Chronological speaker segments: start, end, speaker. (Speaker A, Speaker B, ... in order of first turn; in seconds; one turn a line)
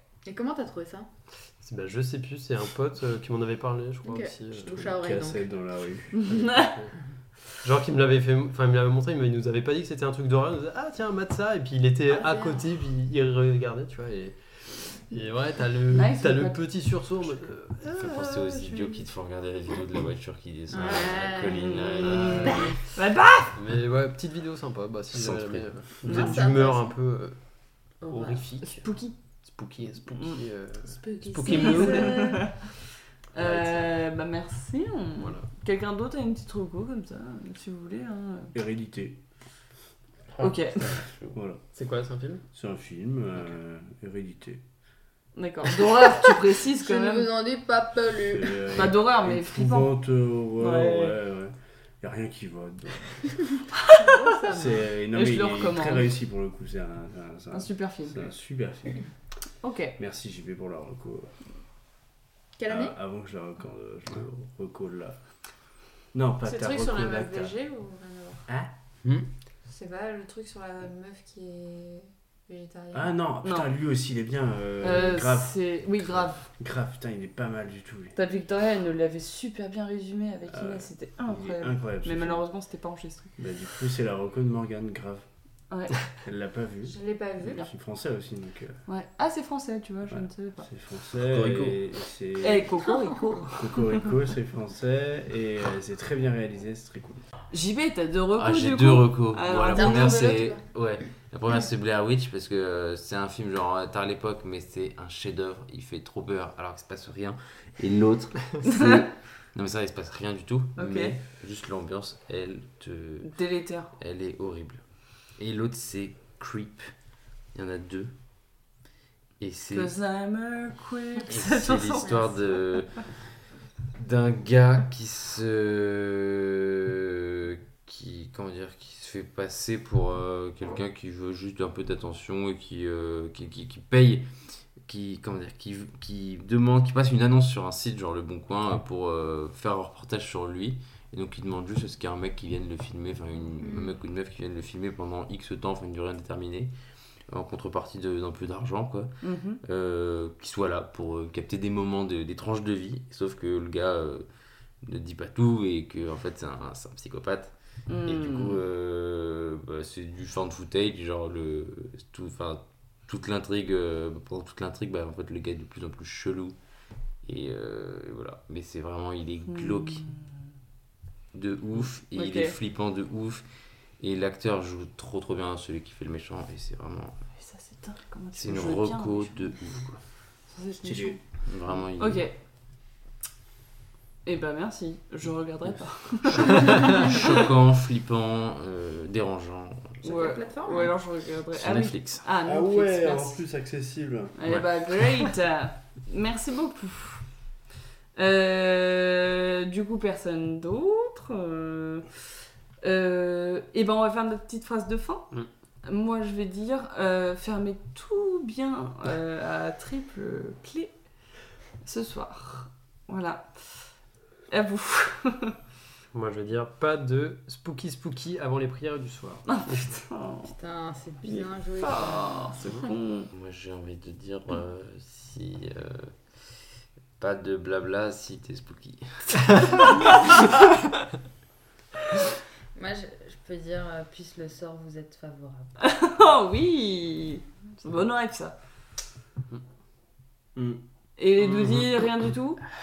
Speaker A: 0.2-1.1
Speaker B: 1.6-5.0
Speaker A: 4.0-5.5
Speaker C: 5.0-6.4
Speaker D: 6.2-6.7
Speaker B: 6.2-6.9
Speaker B: 7.6-18.9
Speaker A: 12.2-12.6
Speaker D: 15.9-16.6
Speaker E: 17.9-22.7
Speaker A: 20.7-22.8
Speaker D: 21.5-23.5
Speaker B: 23.5-27.4
Speaker E: 25.1-25.9
Speaker A: 26.0-26.9
Speaker D: 26.0-26.3
Speaker A: 28.0-28.4
Speaker B: 28.0-28.9
Speaker D: 28.8-29.1
Speaker B: 29.4-32.3
Speaker A: 31.0-32.5
Speaker D: 31.5-32.5
Speaker D: 33.3-38.5
Speaker B: 35.1-35.5
Speaker C: 38.5-39.2
Speaker D: 40.4-41.0
Speaker C: 41.3-41.6
Speaker B: 41.7-42.4
Speaker C: 42.5-44.6
Speaker D: 45.4-47.3
Speaker A: 46.6-48.8
Speaker C: 48.3-53.5
Speaker D: 48.8-49.9
Speaker D: 50.6-51.2
Speaker A: 53.9-54.8
Speaker C: 54.5-59.0
Speaker D: 55.1-56.1
Speaker D: 57.5-58.3
Speaker D: 59.6-60.0
Speaker C: 60.0-61.3
Speaker A: 62.6-62.9
Speaker C: 62.7-65.2
Speaker C: 66.1-67.5
Speaker F: 66.4-68.5
Speaker F: 69.7-73.1
Speaker C: 72.9-78.2
Speaker D: 74.8-76.4
Speaker D: 78.2-83.3
Speaker C: 80.5-82.4
Speaker C: 83.4-85.2
Speaker D: 85.7-86.0
Speaker C: 86.2-88.8
Speaker F: 86.9-87.6
Speaker D: 88.9-90.7
Speaker C: 90.1-92.7
Speaker E: 91.2-91.8
Speaker D: 92.4-94.0
Speaker C: 93.5-97.2
Speaker D: 97.5-100.3
Speaker E: 98.4-113.3
Speaker A: 99.7-100.6
Speaker D: 108.6-109.0
Speaker D: 110.8-111.1
Speaker D: 113.2-113.9
Speaker E: 113.9-116.9
Speaker E: 117.5-118.1
Speaker E: 119.4-119.9
Speaker D: 119.7-122.4
Speaker E: 121.3-123.2
Speaker E: 123.9-146.7
Speaker A: 143.6-143.9
Speaker E: 147.3-154.2
Speaker D: 149.2-149.6
Speaker E: 154.8-166.6
Speaker D: 157.9-158.6
Speaker E: 167.2-170.1
Speaker D: 169.5-170.2
Speaker E: 171.3-173.4
Speaker D: 172.1-172.5
Speaker E: 174.0-177.2
Speaker D: 177.4-179.5
Speaker E: 178.4-180.0
Speaker D: 180.5-181.2
Speaker C: 180.8-181.2
Speaker E: 181.4-182.2
Speaker D: 182.0-182.3
Speaker D: 184.2-187.4
Speaker E: 186.4-190.0
Speaker A: 190.0-190.9
Speaker D: 190.0-193.4
Speaker E: 191.5-192.2
Speaker C: 192.4-194.3
Speaker D: 194.3-197.2
Speaker E: 194.4-195.2
Speaker D: 198.2-202.1
Speaker D: 202.8-210.9
Speaker D: 211.8-213.9
Speaker D: 214.5-215.5
Speaker B: 216.1-219.8
Speaker D: 219.5-220.5
Speaker A: 220.4-222.5
Speaker D: 221.2-223.3
Speaker E: 223.3-226.2
Speaker E: 227.2-229.5
Speaker A: 232.7-235.8
Speaker D: 235.8-238.5
Speaker C: 240.5-240.8
Speaker D: 241.2-242.6